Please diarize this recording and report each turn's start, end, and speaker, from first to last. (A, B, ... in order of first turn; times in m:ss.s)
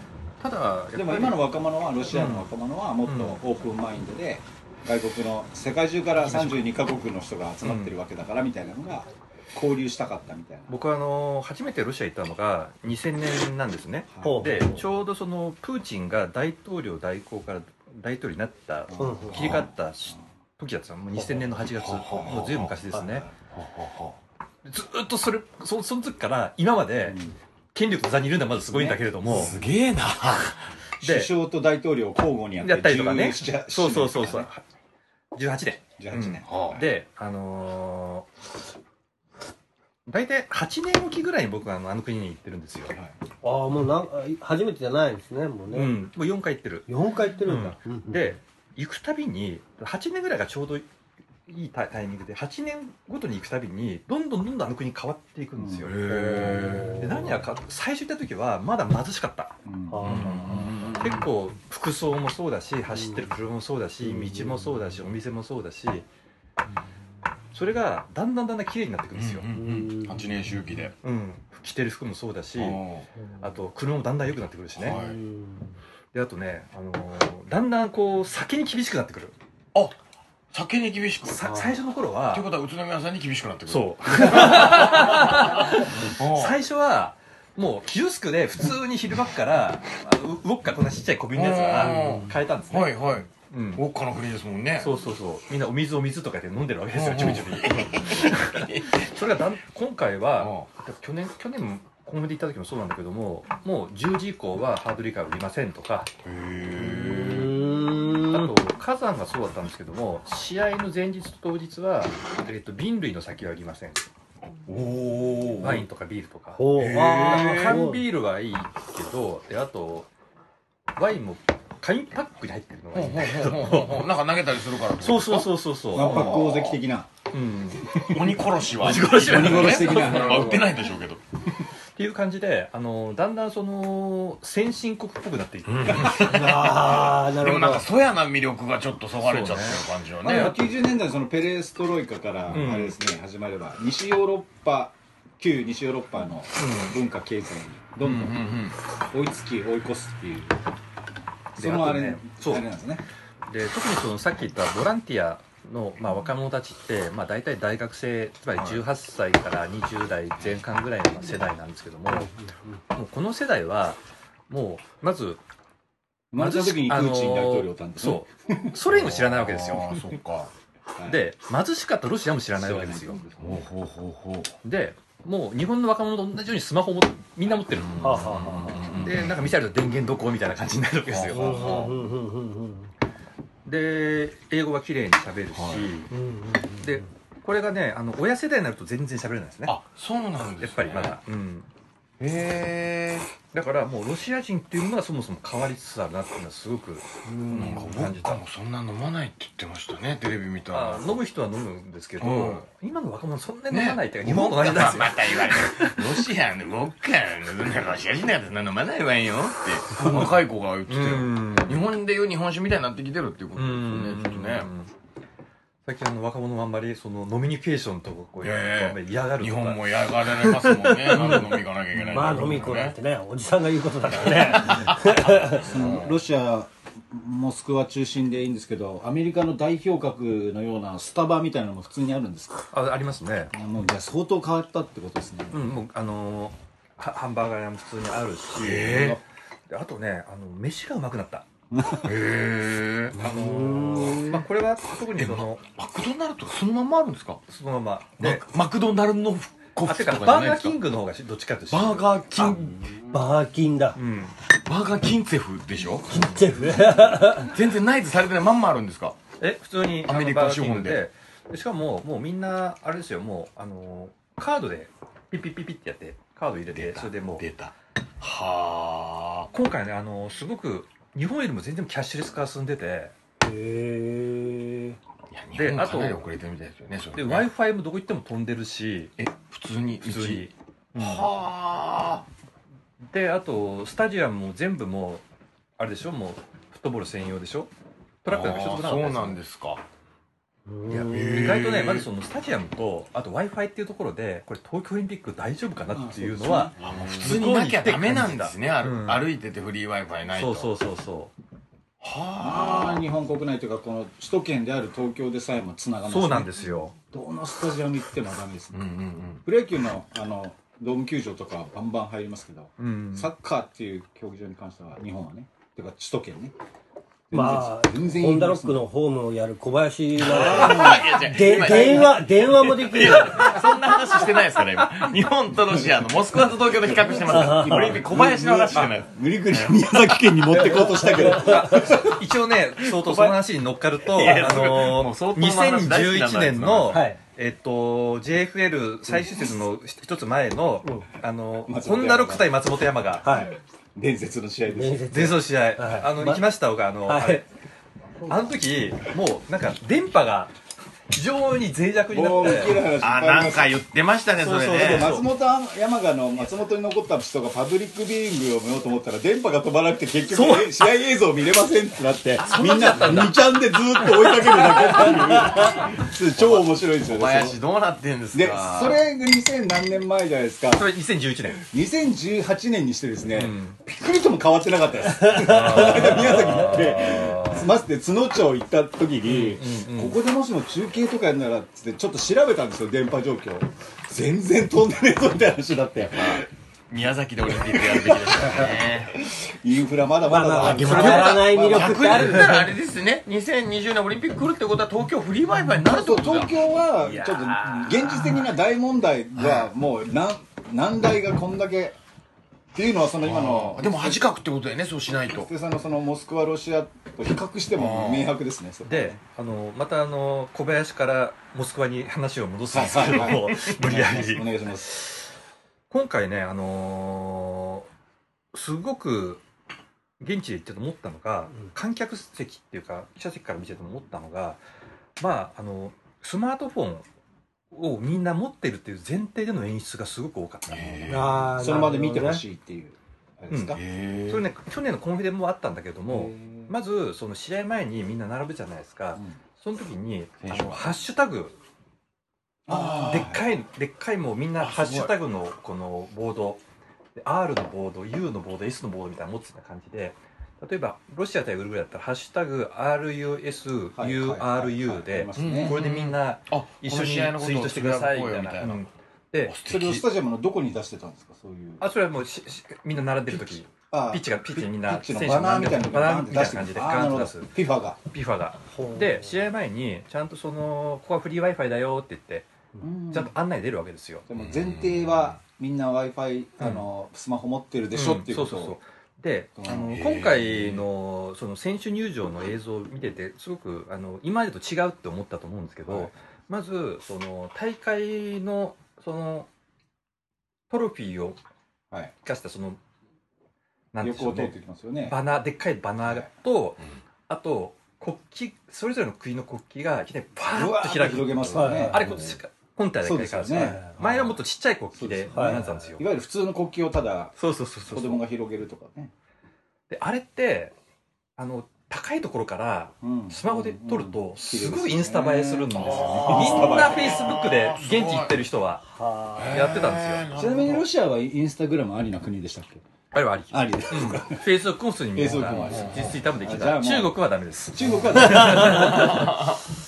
0:00.4-0:01.5 A
0:00.9-0:10.7 B
0:02.1-0:02.5 A
0:03.0-0:03.4 A
0:06.2-0:06.7 A
0:07.6-0:07.9 A
0:10.7-0:23.3 A
0:14.1-0:14.6 B
0:14.2-0:14.8 C
0:18.9-0:19.4 B
0:19.0-0:19.6 C
0:19.3-0:19.6 D
0:21.8-0:22.7 D
0:23.5-0:24.2 D
0:24.6-0:27.2 A
0:27.0-0:27.4 B
0:27.7-0:29.5 A
0:28.7-0:29.0 B
0:29.3-0:30.7 D
0:31.0-0:31.3 A
0:31.0-0:34.5 B
0:32.6-0:34.6 A
0:35.3-0:38.3 A
0:36.0-0:36.8 B
0:36.5-0:36.8 D
0:40.1-0:42.9 A
0:43.4-0:46.0 C
0:45.7-0:46.9 A
0:46.9-0:48.3 C
0:47.4-0:50.9 A
0:51.5-1:06.0 A
0:55.6-0:56.0 B
0:55.8-0:57.1 D
0:56.3-0:57.4 C
0:59.6-1:01.0 B
0:59.9-1:00.3 C
1:00.0-1:01.2 D
1:04.0-1:04.8 C
1:07.5-1:09.5 A
1:09.1-1:10.9 D
1:09.5-1:10.2 C
1:11.0-1:12.8 A
1:12.6-1:13.1 D
1:13.4-1:15.0 A
1:14.8-1:15.2 D
1:14.9-1:15.7 C
1:16.1-1:19.3 A
1:20.5-1:21.6 D
1:21.2-1:22.5 A
1:22.3-1:26.6 D
1:23.7-1:33.8 A
1:31.3-1:34.9 D
1:31.9-1:32.3 C
1:34.8-1:46.1 A
1:36.9-1:39.1 D
1:40.4-1:40.7 D
1:46.2-1:47.7 D
1:46.8-1:48.5 C
1:48.3-1:54.0 A
1:54.6-1:55.8 D
1:55.6-2:00.1 A
1:56.5-1:58.0 C
1:56.7-1:57.9 D
2:01.0-2:04.0 A
2:02.9-2:06.8 D
2:05.0-2:06.4 A
2:05.9-2:07.1 B
2:07.3-2:08.2 A
2:07.9-2:08.2 B
2:08.0-2:11.2 D
2:08.8-2:10.6 A
2:08.8-2:10.8 B
2:12.0-2:16.5 A
2:15.7-2:20.6 D
2:16.2-2:17.8 C
2:19.2-2:19.8 A
2:20.2-2:28.5 B
2:22.5-2:23.0 A
2:26.6-2:26.9 A
2:28.0-2:28.8 D
2:29.0-2:30.6 B
2:31.6-2:33.0 B
2:31.6-2:32.6 A
2:33.5-2:42.3 A
2:42.1-2:42.4 C
2:42.9-2:45.4 A
2:46.3-2:48.7 B
2:46.4-2:50.0 A
2:48.9-2:50.5 D
2:50.9-2:51.2 B
2:51.0-2:53.2 A
2:52.5-2:53.6 B
2:53.4-2:54.5 D
2:54.6-3:01.8 A
2:57.8-2:59.4 D
2:58.0-2:58.9 C
3:01.1-3:02.0 D
3:01.3-3:02.9 C
3:03.6-3:06.1 A
3:05.5-3:05.9 D
3:06.1-3:07.0 C
3:06.8-3:09.8 A
3:09.6-3:11.2 D
3:10.6-3:11.7 A
3:12.2-3:13.3 D
3:13.5-3:18.4 A
3:17.2-3:17.7 C
3:17.5-3:21.1 D
3:20.7-3:26.2 A
3:22.2-3:22.6 D
3:23.7-3:34.7 D
3:30.0-3:30.3 A
3:30.9-3:31.8 A
3:33.6-3:34.9 A
3:35.8-3:39.8 A
3:38.4-3:43.0 D
3:40.7-3:41.5 C
3:42.0-3:45.7 C
3:44.2-3:46.1 D
3:45.6-3:52.7 B
3:52.7-3:53.5 A
3:53.5-3:55.6 B
3:55.5-4:01.5 A
3:58.6-3:59.2 D
4:01.7-4:02.1 B
4:02.0-4:03.2 D
4:03.1-4:04.4 C
4:03.2-4:05.6 A
4:05.2-4:07.4 D
4:07.5-4:08.4 A
4:08.2-4:10.8 D
4:09.8-4:12.8 A
4:11.7-4:13.1 D
4:13.1-4:14.0 C
4:14.0-4:14.4 A
4:14.5-4:16.2 D
4:16.1-4:17.5 C
4:17.4-4:19.2 D
4:19.4-4:27.4 A
4:20.0-4:21.0 D
4:26.7-4:29.5 D
4:29.5-4:33.1 A
4:33.4-4:35.0 C
4:35.3-4:37.5 D
4:35.5-4:36.3 A
4:37.1-4:39.1 A
4:39.2-4:42.2 D
4:40.0-4:41.3 A
4:43.1-4:45.2 A
4:45.8-4:47.7 A
4:48.2-4:49.4 A
4:48.2-4:49.8 D
4:50.7-4:51.4 C
4:50.9-4:59.3 A
4:51.1-4:52.0 D
4:55.9-4:57.1 B
4:56.8-5:00.7 D
5:00.3-5:01.3 A
5:02.0-5:03.0 D
5:02.4-5:08.8 B
5:06.1-5:06.9 A
5:08.7-5:09.4 D
5:09.4-5:16.5 B
5:12.8-5:13.3 A
5:17.3-5:18.8 B
5:17.3-5:23.5 C
5:20.2-5:30.1 D
5:20.3-5:21.9 B
5:26.7-5:32.2 B
5:27.3-5:28.0 C
5:30.7-5:31.7 C
5:31.2-5:43.3 A
5:32.8-5:33.4 D
5:34.0-5:37.0 D
5:36.9-5:37.2 C
5:41.6-5:42.5 B
5:43.2-5:43.5 C
5:43.9-5:45.3 B
5:44.7-5:46.4 C
5:45.1-5:47.5 A
5:47.0-5:47.4 C
5:48.3-5:50.5 A
5:51.1-5:52.9 A
5:52.1-5:53.8 B
5:52.8-5:55.2 D
5:54.4-5:55.3 A
5:54.7-6:07.6 B
6:00.3-6:00.8 A
6:02.4-6:03.4 A
6:04.6-6:05.1 A
6:06.4-6:09.0 D
6:08.3-6:10.9 B
6:10.7-6:11.6 A
6:11.6-6:26.5 B
6:13.3-6:13.8 A
6:15.3-6:17.7 A
6:19.2-6:20.2 A
6:26.2-6:29.3 D
6:27.5-6:32.5 B
6:30.2-6:32.7 C
6:30.5-6:36.5 D
6:30.9-6:31.3 A
6:35.8-6:42.0 B
6:37.0-6:38.1 A
6:42.7-6:44.2 B
6:43.2-6:45.5 D
6:45.3-6:49.2 B
6:47.7-6:48.3 D
6:48.8-6:55.3 A
6:52.7-6:54.9 B
6:53.0-6:53.7 D
6:55.9-6:57.9 A
6:58.5-6:59.4 A
7:00.2-7:04.6 A
7:05.2-7:07.0 A
7:07.7-7:11.3 A
7:10.7-7:11.4 D
7:11.1-7:12.4 C
7:11.6-7:13.8 B
7:13.5-7:21.6 A
7:13.8-7:14.4 D
7:16.1-7:16.7 B
7:20.4-7:20.9 D
7:22.7-7:23.4 B
7:22.7-7:23.3 D
7:22.7-7:26.6 A
7:24.6-7:25.1 D
7:27.2-7:39.6 A
7:34.0-7:35.8 B
7:35.4-7:38.8 D
7:39.5-7:40.0 D
7:39.7-7:41.8 B
7:41.8-7:47.5 A
7:43.3-7:48.0 B
7:48.1-7:52.5 A
7:48.7-7:49.3 C
7:52.8-7:53.3 B
7:53.1-7:54.2 A
7:54.3-7:58.8 B
7:54.4-7:55.3 D
7:56.6-7:56.8 A
7:57.9-8:09.5 A
7:59.6-8:00.0 B
7:59.8-8:00.8 D
8:10.7-8:11.4 A
8:12.2-8:12.8 A
8:13.9-8:14.5 A
8:14.0-8:15.2 B
8:15.0-8:26.0 A
8:20.5-8:22.1 B
8:21.5-8:22.3 C
8:23.0-8:24.2 B
8:25.0-8:27.4 B
8:25.3-8:25.6 C
8:27.4-8:28.2 A
8:27.9-8:29.1 B
8:29.9-8:30.7 A
8:31.4-8:38.8 A
8:33.0-8:37.2 B
8:35.7-8:38.4 D
8:38.9-8:39.6 C
8:39.3-8:40.8 D
8:39.5-8:40.2 A
8:40.3-8:42.8 B
8:43.1-8:49.1 A
8:43.5-8:44.4 B
8:45.1-8:47.2 B
8:45.5-8:46.1 D
8:47.7-8:49.1 B
8:48.2-8:49.3 C
8:48.7-8:49.4 D